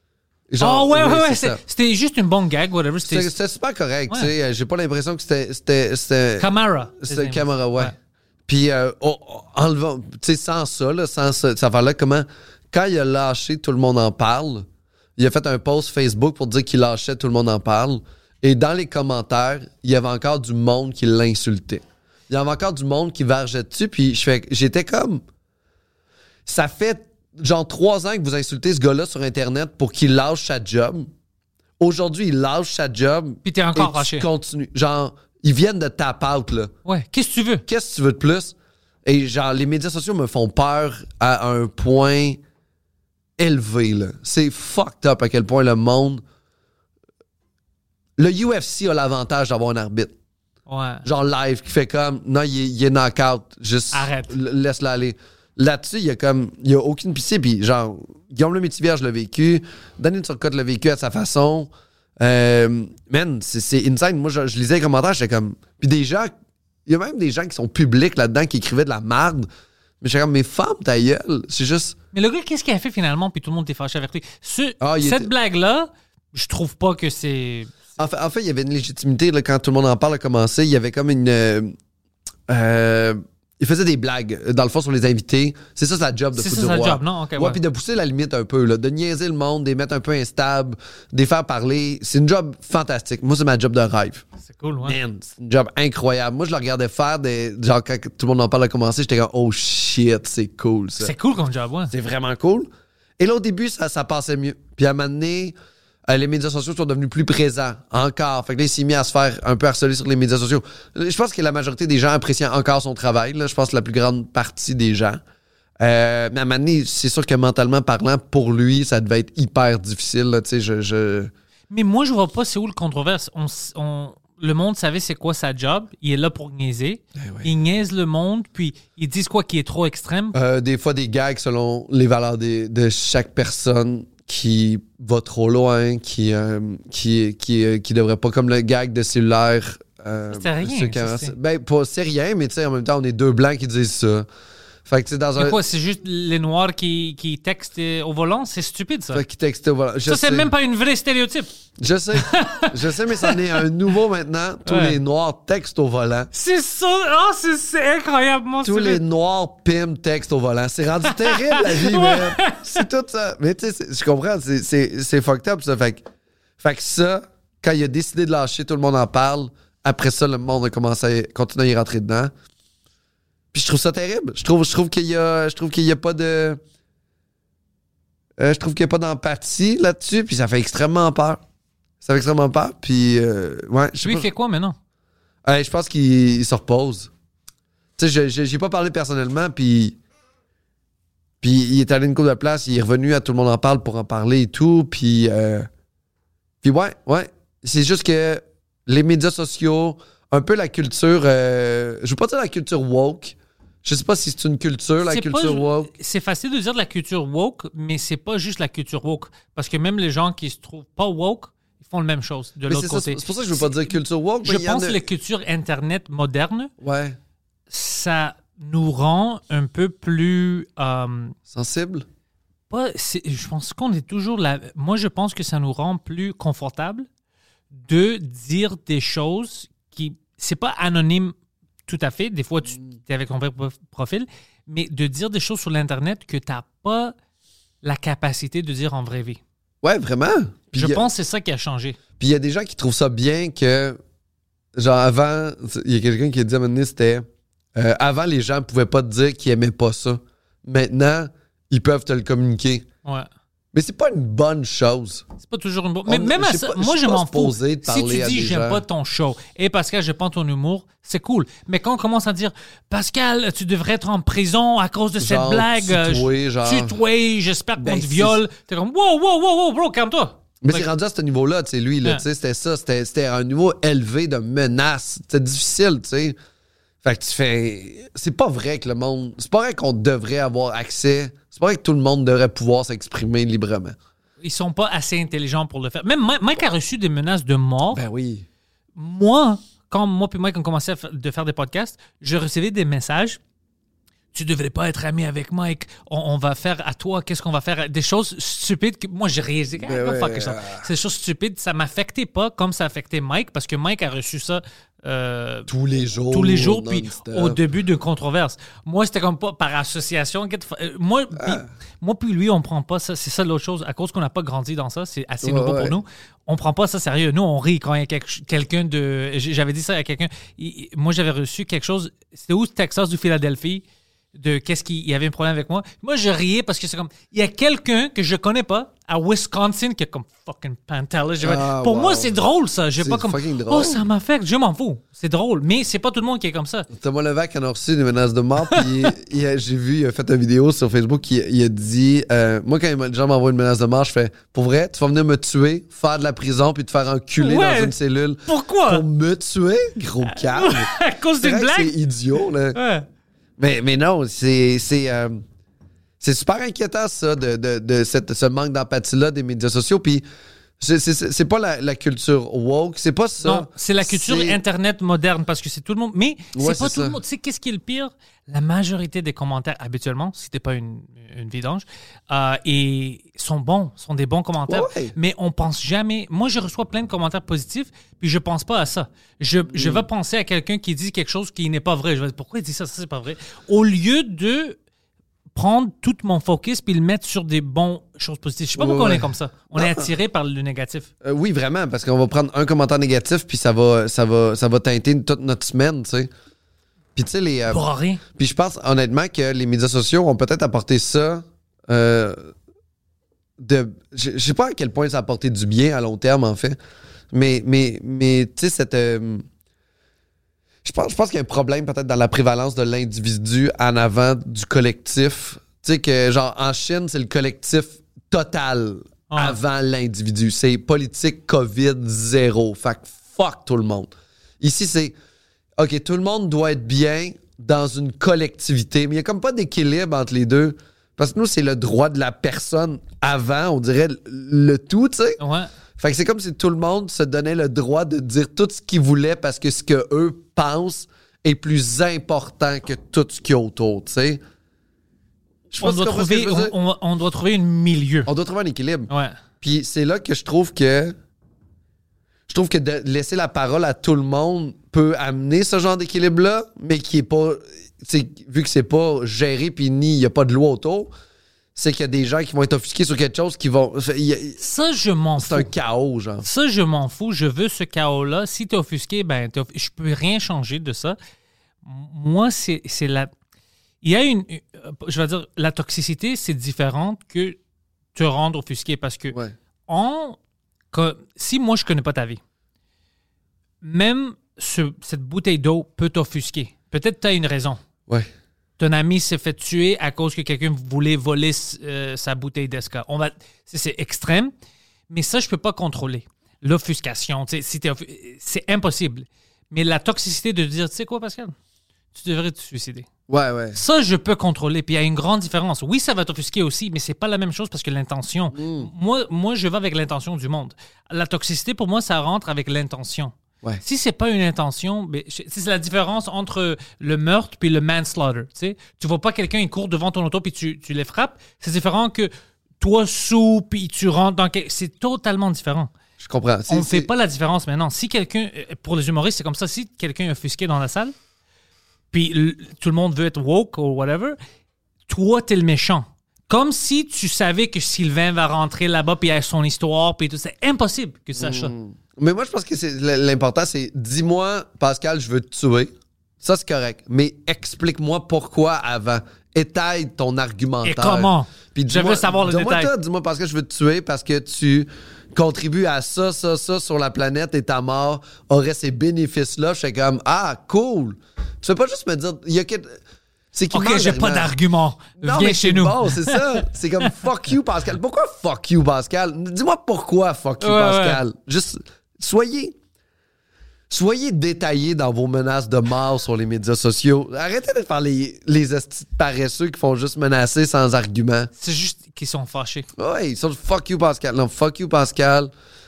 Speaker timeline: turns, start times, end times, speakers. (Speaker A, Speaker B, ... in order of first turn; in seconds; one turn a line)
Speaker A: 0.5-1.6
Speaker B: 0.6-3.3
Speaker A: 3.0-7.9
Speaker B: 6.4-7.9
Speaker A: 8.5-14.7
Speaker A: 15.2-25.2
Speaker A: 26.4-31.1
Speaker A: 31.8-36.7
Speaker B: 33.4-34.3
Speaker B: 36.9-37.6
Speaker A: 37.6-42.4
Speaker A: 43.4-46.2
Speaker A: 48.2-50.1
Speaker B: 50.7-51.0
Speaker A: 51.0-66.3
Speaker B: 53.9-54.3
Speaker A: 66.8-69.5
Speaker A: 70.0-72.0
Speaker B: 72.1-77.7
Speaker A: 74.8-75.3
Speaker A: 78.0-81.8
Speaker A: 82.5-94.2
Speaker B: 86.3-87.6
Speaker B: 94.4-95.0
Speaker A: 94.8-101.1
Speaker B: 101.0-101.9
Speaker A: 101.9-105.5
Speaker A: 106.0-115.2
Speaker A: 115.8-121.3
Speaker B: 121.7-130.3
Speaker A: 127.1-127.5
Speaker A: 130.3-144.3
Speaker B: 140.3-141.3
Speaker A: 144.8-145.6
Speaker B: 145.4-149.2
Speaker A: 149.1-150.5
Speaker B: 150.1-151.5
Speaker A: 151.8-156.3
Speaker B: 152.1-153.6
Speaker B: 154.6-155.0
Speaker B: 156.3-159.0
Speaker A: 158.6-166.0
Speaker B: 161.1-162.8
Speaker A: 166.6-172.3
Speaker A: 173.5-176.6
Speaker A: 178.4-181.4
Speaker A: 182.0-184.3
Speaker B: 184.0-184.8
Speaker A: 185.4-187.1
Speaker A: 188.0-190.0
Speaker A: 191.4-195.7
Speaker A: 196.6-205.9
Speaker B: 205.0-216.7
Speaker A: 212.7-215.0
Speaker A: 216.8-217.2
Speaker B: 217.7-221.3
Speaker A: 221.5-222.0
Speaker B: 222.7-227.1
Speaker B: 227.7-231.3
Speaker B: 231.9-237.1
Speaker B: 237.8-239.4
Speaker A: 239.8-241.1
Speaker B: 240.7-242.0
Speaker A: 242.2-244.0
Speaker A: 244.7-252.8
Speaker A: 253.7-255.2
Speaker B: 255.4-270.9
Speaker A: 256.1-258.8
Speaker A: 265.2-266.9
Speaker A: 267.8-268.4
Speaker A: 270.6-276.4
Speaker A: 277.0-284.0
Speaker B: 284.4-288.0
Speaker A: 287.9-288.4
Speaker B: 288.9-293.4
Speaker B: 294.3-305.7
Speaker A: 299.8-300.9
Speaker A: 305.7-307.6
Speaker B: 306.3-323.8
Speaker A: 311.4-311.7
Speaker A: 315.4-316.0
Speaker B: 324.3-336.9
Speaker A: 331.4-332.4
Speaker A: 332.9-334.0
Speaker A: 336.9-352.8
Speaker B: 347.4-349.0
Speaker B: 350.2-351.9
Speaker B: 352.7-353.1
Speaker A: 353.6-355.4
Speaker A: 356.2-360.2
Speaker A: 360.8-364.6
Speaker B: 363.4-384.8
Speaker A: 366.5-367.2
Speaker A: 374.7-375.1
Speaker A: 379.7-380.1
Speaker B: 385.5-391.1
Speaker A: 388.8-390.1
Speaker A: 391.2-396.3
Speaker A: 397.1-397.8
Speaker B: 397.7-398.2
Speaker A: 398.3-402.5
Speaker A: 403.6-406.8
Speaker A: 407.3-409.4
Speaker A: 410.8-425.1
Speaker B: 419.3-419.6
Speaker A: 425.8-435.4
Speaker B: 435.4-435.7
Speaker A: 436.0-444.4
Speaker A: 445.7-446.8
Speaker B: 445.8-448.3
Speaker A: 448.2-449.1
Speaker B: 449.1-449.4
Speaker A: 449.6-451.1
Speaker A: 452.5-461.1
Speaker A: 461.7-464.6
Speaker B: 464.6-465.7
Speaker A: 465.4-466.5
Speaker B: 466.4-471.2
Speaker B: 471.8-473.3
Speaker B: 474.0-477.6
Speaker B: 478.1-479.4
Speaker B: 479.9-480.4
Speaker B: 480.9-482.4
Speaker B: 483.8-487.8
Speaker B: 488.8-494.5
Speaker B: 495.1-501.5
Speaker B: 502.1-503.1
Speaker A: 503.3-503.8
Speaker B: 503.7-525.9
Speaker A: 508.5-508.9
Speaker A: 526.2-527.1
Speaker B: 526.7-531.1
Speaker B: 532.1-534.4
Speaker B: 535.1-541.7
Speaker A: 541.4-563.0
Speaker B: 550.8-552.9
Speaker A: 563.5-564.5
Speaker B: 563.7-567.1
Speaker A: 565.2-572.7
Speaker B: 570.6-571.2
Speaker A: 573.9-581.5
Speaker B: 581.6-582.9
Speaker A: 583.0-585.5